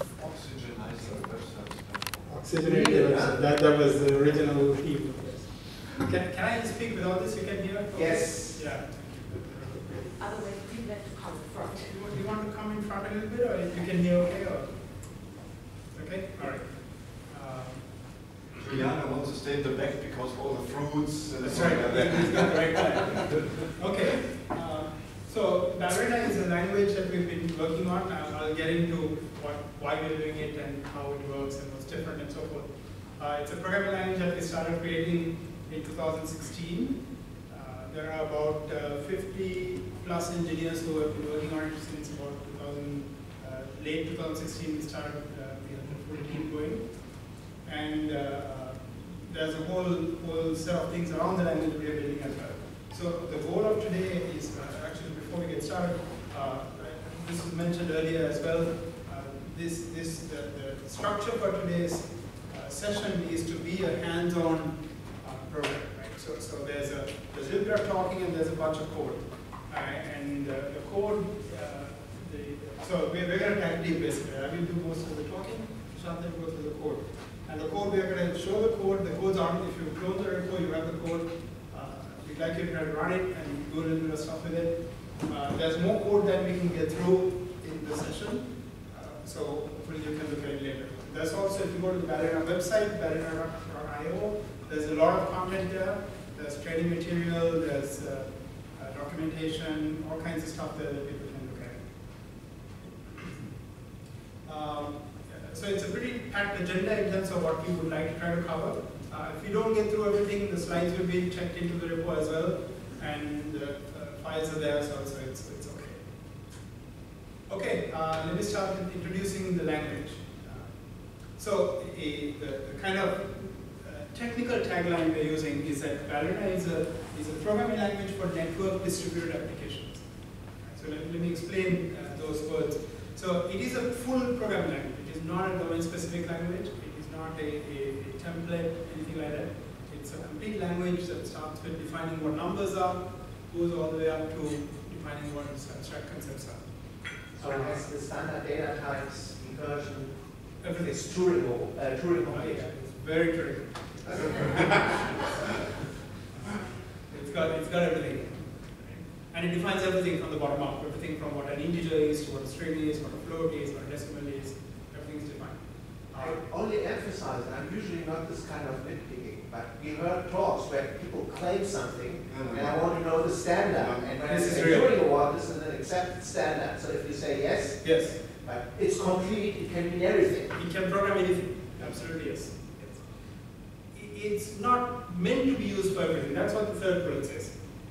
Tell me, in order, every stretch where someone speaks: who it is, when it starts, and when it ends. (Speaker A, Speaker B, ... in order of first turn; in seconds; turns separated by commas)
Speaker A: 0.1-2.4, Speaker B: 2.3-10.2, Speaker C: 2.6-3.4, Speaker C: 7.9-8.6, Speaker D: 10.2-12.1, Speaker B: 11.9-15.0, Speaker B: 15.9-18.3, Speaker A: 18.6-23.4, Speaker B: 21.4-101.8, Speaker B: 103.1-103.4, Speaker B: 104.4-116.1, Speaker B: 117.5-130.0, Speaker B: 130.6-146.7, Speaker B: 147.2-147.8, Speaker C: 147.4-152.7, Speaker B: 150.6-150.9, Speaker B: 152.3-155.5, Speaker C: 154.1-155.1, Speaker B: 156.3-166.4, Speaker C: 166.2-180.5, Speaker A: 172.3-172.9, Speaker A: 173.8-174.1, Speaker B: 174.2-175.0, Speaker B: 177.8-178.2, Speaker B: 180.5-183.1, Speaker B: 183.9-187.5